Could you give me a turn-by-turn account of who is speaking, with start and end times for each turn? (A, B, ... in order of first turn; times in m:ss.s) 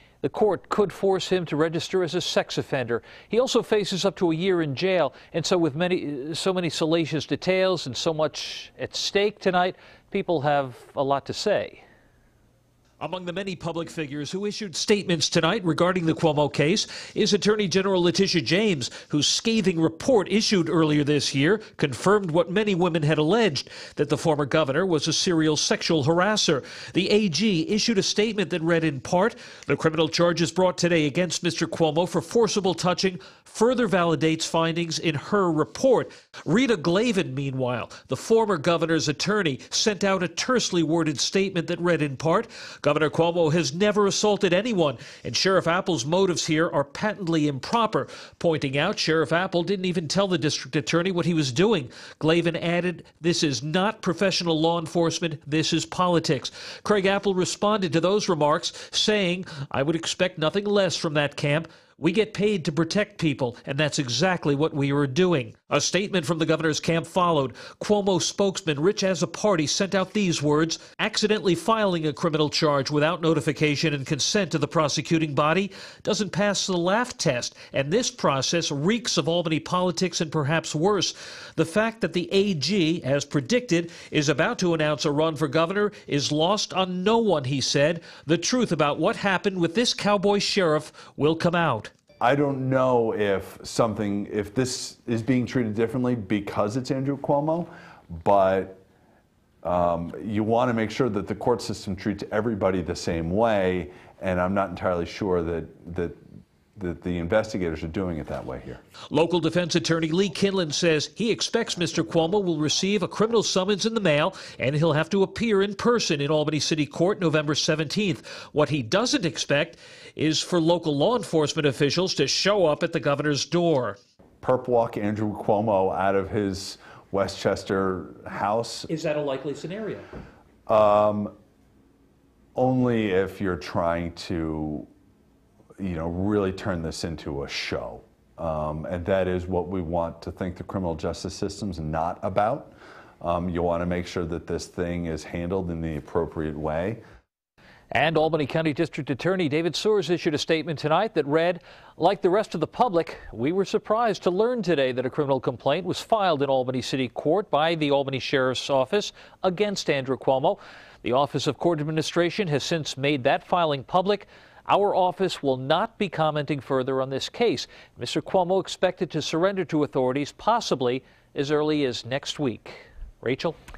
0:00.2-0:11.8 A
0:13.0-1:31.9 A
1:32.2-1:38.8 B
1:39.6-1:46.2 B
1:46.8-1:48.8 B
1:49.1-2:04.0 A
2:04.4-2:08.9 B
2:08.9-2:10.1 A
2:10.7-2:11.3 B
2:12.6-2:14.9 B
2:15.8-2:27.0 B
2:27.9-2:53.6 A